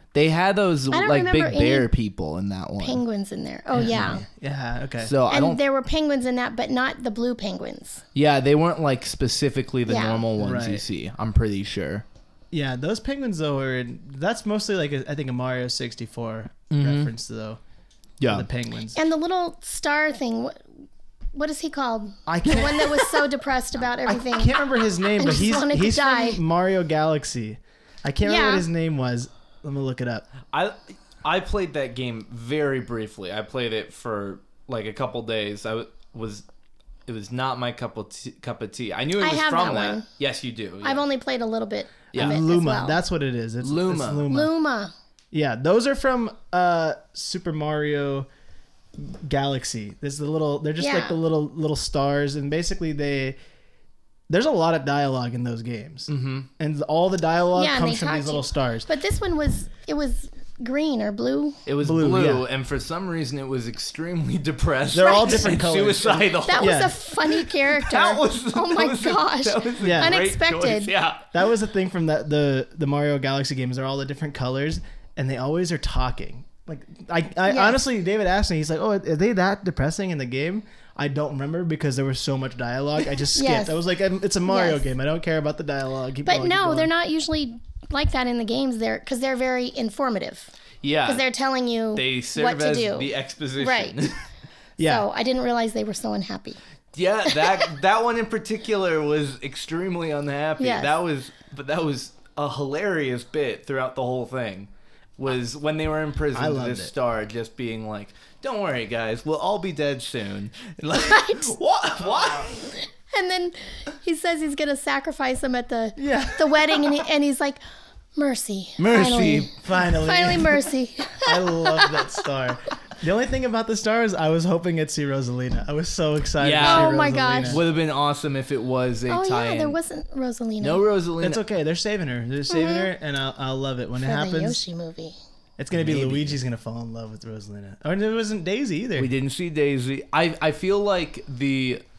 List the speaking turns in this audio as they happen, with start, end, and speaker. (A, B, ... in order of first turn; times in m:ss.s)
0:00.1-0:03.0 A
0:00.9-0:01.9 B
0:02.8-0:04.2 B
0:03.7-0:05.2 C
0:05.0-0:05.6 A
0:05.3-0:08.0 B
0:08.2-0:12.0 A
0:09.9-0:10.3 B
0:10.4-0:10.8 C
0:12.5-0:17.6 C
0:16.7-0:17.1 A
0:18.2-0:18.5 A
0:18.3-0:19.0 C
0:19.0-0:20.7 B
0:21.3-0:24.6 B
0:22.3-0:23.2 C
0:24.0-0:30.3 C
0:25.2-0:26.4 B
0:28.2-0:28.7 B
0:30.5-0:36.4 A
0:37.1-0:41.0 A
0:39.2-0:40.1 B
0:40.8-0:43.0 B
0:42.1-0:42.4 A
0:42.2-0:44.5 C
0:43.6-0:44.2 A
0:44.3-0:44.9 B
0:45.3-0:48.3 C
0:49.0-0:53.4 C
0:50.8-0:51.2 B
0:54.3-0:58.9 C
0:56.1-0:56.5 A
0:57.6-1:01.6 B
1:01.7-1:11.3 A
1:01.8-1:02.4 C
1:04.9-1:07.0 C
1:05.0-1:05.5 B
1:06.5-1:10.9 B
1:09.8-1:10.2 C
1:11.3-1:26.9 C
1:17.5-1:17.8 B
1:23.3-1:23.8 B
1:24.5-1:24.8 B
1:26.2-1:30.5 B
1:30.8-1:31.2 A
1:31.1-1:34.0 B
1:32.0-1:34.2 A
1:34.8-1:35.1 C
1:34.8-1:36.6 B
1:36.9-1:52.7 A
1:37.3-1:37.7 B
1:40.6-1:41.0 B
1:46.3-1:46.9 C
1:51.0-1:51.5 B
1:52.7-1:57.6 B
1:56.0-1:57.0 C
1:58.2-2:02.2 B
1:58.8-1:59.5 A
1:59.6-2:00.6 C
2:01.2-2:07.6 C
2:06.4-2:09.8 A
2:06.6-2:07.6 B
2:09.1-2:10.8 B
2:10.6-2:11.4 A
2:11.2-2:14.6 C
2:12.5-2:12.9 B
2:14.0-2:15.2 B
2:15.6-2:19.1 C
2:15.7-2:16.4 A
2:19.0-2:21.8 A